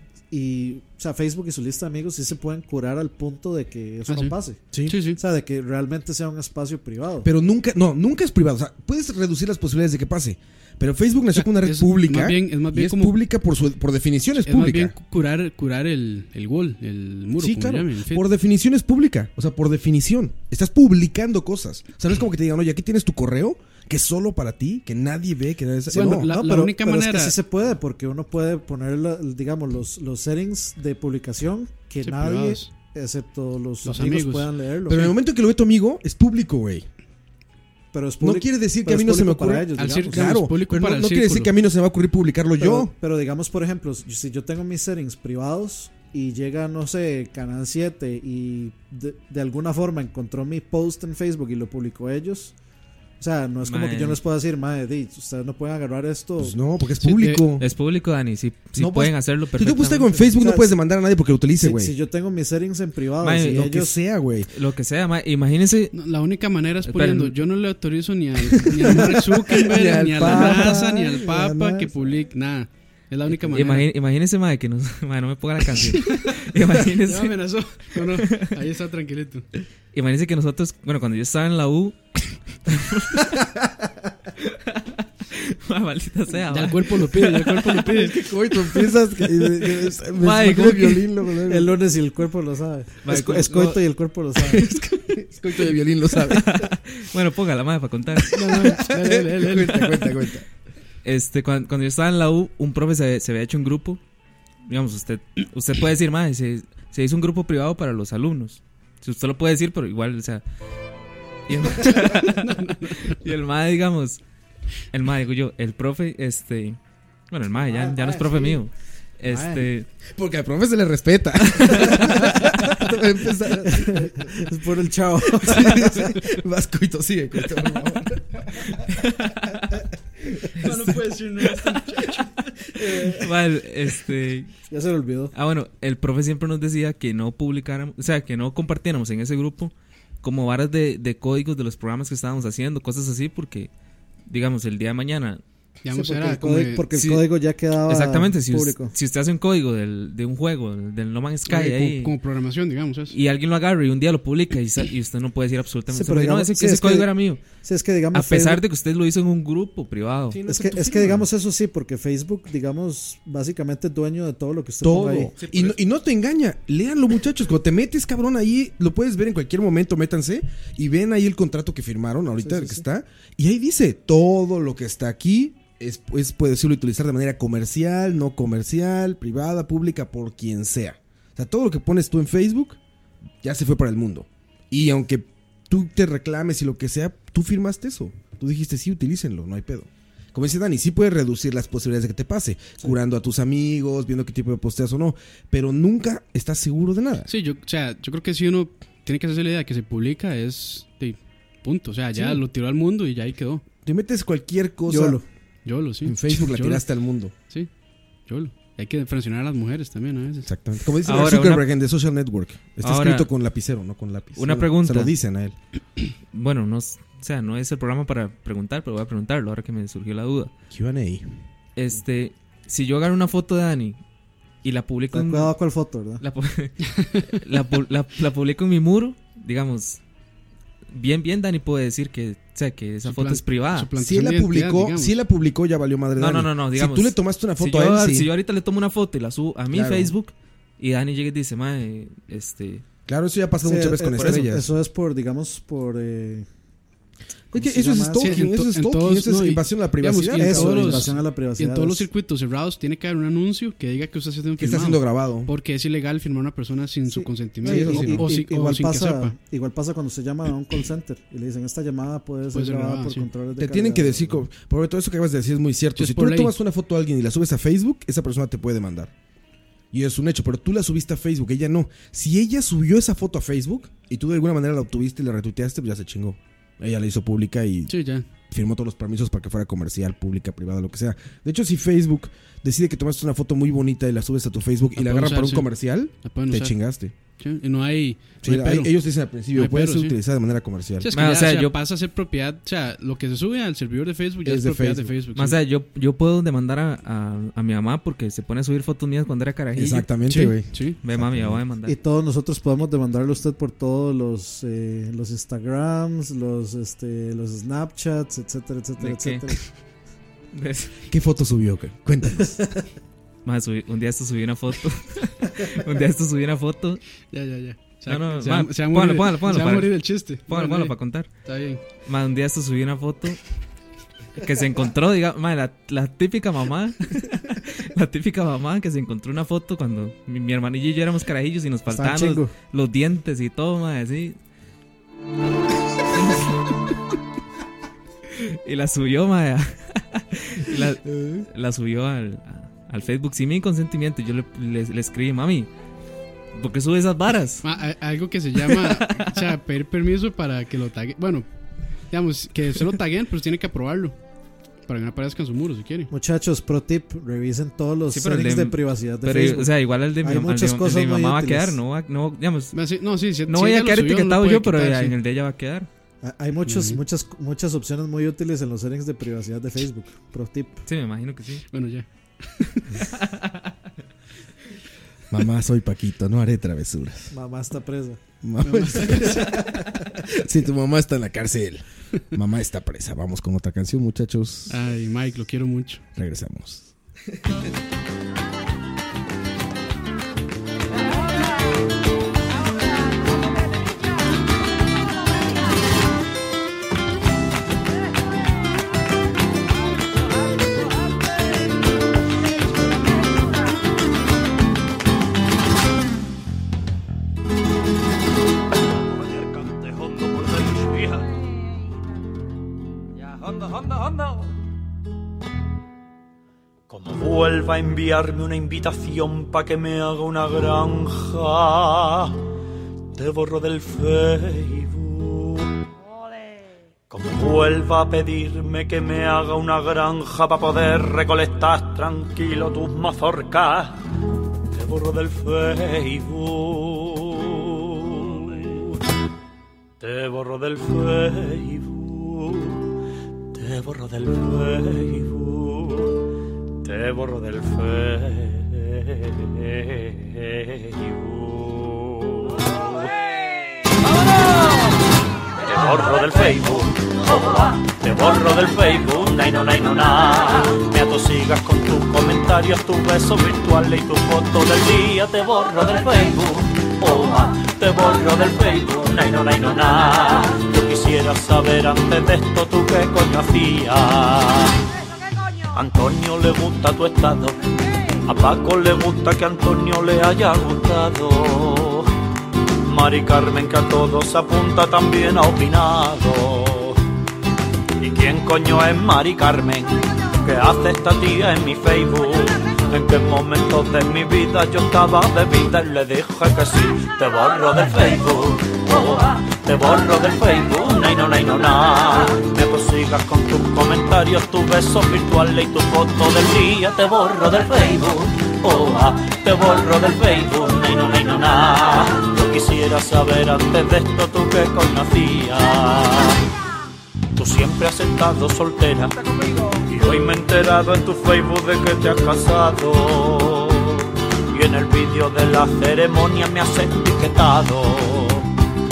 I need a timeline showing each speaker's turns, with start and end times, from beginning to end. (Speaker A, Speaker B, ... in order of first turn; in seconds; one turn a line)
Speaker A: 0.3-7.3
Speaker B: 4.1-5.2
Speaker C: 7.2-14.9
Speaker B: 11.3-13.2
Speaker B: 14.4-18.2
Speaker C: 17.4-26.3
Speaker B: 25.9-27.3
Speaker A: 25.9-35.1
Speaker B: 32.0-32.7
Speaker B: 33.8-34.5
Speaker C: 34.9-36.8
Speaker A: 37.9-40.4
Speaker C: 38.2-42.9
Speaker B: 39.8-41.5
Speaker A: 42.6-52.5
Speaker A: 53.2-56.6
Speaker D: 53.6-54.2
Speaker C: 56.4-57.6
Speaker B: 57.0-57.5
Speaker D: 57.6-60.4
Speaker C: 58.8-61.9
Speaker A: 60.4-60.8
Speaker A: 61.6-64.0
Speaker D: 63.2-63.7
Speaker C: 63.4-64.5
Speaker D: 64.5-65.9
Speaker B: 65.9-73.9
Speaker D: 66.8-67.3
Speaker C: 68.8-71.9
Speaker D: 73.5-77.4
Speaker B: 75.8-79.5
Speaker D: 77.9-78.5
Speaker D: 79.9-83.3
Speaker D: 84.4-87.9
Speaker B: 86.5-88.2
Speaker C: 87.8-91.7
Speaker D: 89.9-91.0
Speaker A: 91.5-94.6
Speaker D: 93.0-93.8
Speaker D: 94.4-95.2
Speaker C: 94.9-96.6
Speaker D: 96.3-98.4
Speaker B: 98.3-100.2
Speaker C: 98.5-100.5
Speaker D: 101.0-104.0
Speaker D: 104.7-110.4
Speaker D: 111.5-114.2
Speaker B: 112.4-113.1
Speaker D: 114.9-116.8
Speaker D: 117.3-119.9
Speaker A: 117.6-118.6
Speaker A: 119.2-119.6
Speaker C: 120.1-124.3
Speaker D: 121.5-122.2
Speaker A: 123.6-126.0
Speaker C: 125.4-128.8
Speaker D: 128.6-129.8
Speaker B: 130.6-132.3
Speaker D: 130.6-134.5
Speaker A: 132.8-133.3
Speaker A: 134.7-135.3
Speaker D: 135.3-143.7
Speaker D: 144.3-145.4
Speaker B: 145.8-146.8
Speaker A: 145.9-148.9
Speaker D: 146.9-147.2
Speaker D: 147.9-152.2
Speaker B: 151.5-153.2
Speaker D: 153.1-157.4
Speaker A: 155.9-158.6
Speaker D: 158.1-160.4
Speaker C: 160.3-161.3
Speaker A: 160.5-165.3
Speaker C: 164.8-182.8
Speaker D: 165.4-165.8
Speaker A: 172.4-172.8
Speaker C: 183.4-197.3
Speaker B: 197.3-203.6
Speaker C: 203.8-205.2
Speaker A: 204.9-205.2
Speaker B: 205.6-206.8
Speaker C: 206.0-207.3
Speaker B: 208.3-210.5
Speaker C: 210.4-215.6
Speaker D: 211.0-211.7
Speaker D: 212.8-213.3
Speaker D: 214.3-215.1
Speaker D: 216.3-220.5
Speaker C: 220.7-221.3
Speaker D: 221.8-224.0
Speaker D: 224.6-225.5
Speaker A: 225.1-226.2
Speaker D: 226.2-230.0
Speaker D: 230.9-233.9
Speaker B: 233.0-235.2
Speaker C: 234.0-238.3
Speaker D: 236.2-242.8
Speaker C: 239.7-240.1
Speaker C: 243.1-244.7
Speaker A: 243.6-246.4
Speaker D: 244.2-244.5
Speaker A: 247.5-248.4
Speaker C: 247.5-251.1
Speaker B: 248.2-259.3
Speaker A: 250.3-252.1
Speaker C: 254.6-255.5
Speaker A: 257.1-264.4
Speaker C: 257.6-258.3
Speaker B: 262.5-263.3
Speaker C: 263.6-269.1
Speaker B: 266.0-266.5
Speaker C: 269.9-287.1
Speaker B: 277.9-278.2
Speaker B: 285.0-285.7
Speaker B: 286.2-286.8
Speaker B: 287.4-288.9
Speaker C: 288.4-291.1
Speaker B: 289.5-290.2
Speaker B: 291.0-295.6
Speaker D: 291.1-291.8
Speaker C: 294.4-295.1
Speaker D: 295.3-300.1
Speaker C: 299.7-301.6
Speaker B: 300.3-301.0
Speaker D: 301.0-301.9
Speaker A: 301.9-309.6
Speaker D: 309.0-309.6
Speaker D: 310.5-311.0
Speaker C: 311.1-312.6
Speaker D: 313.4-317.0
Speaker B: 317.3-321.8
Speaker D: 318.1-321.3
Speaker D: 322.0-323.4
Speaker D: 324.4-334.4
Speaker A: 331.9-332.5
Speaker D: 338.4-345.7
Speaker D: 346.5-347.6
Speaker B: 347.6-351.5
Speaker D: 348.7-349.3
Speaker B: 352.1-354.1
Speaker B: 354.9-356.1
Speaker A: 356.1-361.8
Speaker D: 358.1-362.8
Speaker B: 362.7-365.1
Speaker D: 363.4-365.9
Speaker A: 366.2-370.8
Speaker B: 366.6-367.0
Speaker D: 370.9-371.6
Speaker B: 371.7-373.1
Speaker D: 373.2-373.6
Speaker C: 375.3-377.3
Speaker A: 377.3-378.2
Speaker C: 378.4-384.8
Speaker B: 378.6-379.4
Speaker B: 384.7-386.0
Speaker C: 386.1-386.9
Speaker E: 409.1-411.3
Speaker E: 413.2-414.4
Speaker E: 416.9-422.4
Speaker E: 423.1-425.7
Speaker E: 427.1-434.1
Speaker E: 434.7-439.0
Speaker E: 440.0-442.9
Speaker E: 443.5-446.2
Speaker E: 446.8-453.1
Speaker E: 455.6-474.8
Speaker E: 475.7-477.6
Speaker E: 478.1-482.1
Speaker E: 482.8-487.0
Speaker E: 488.0-516.4
Speaker E: 517.3-528.5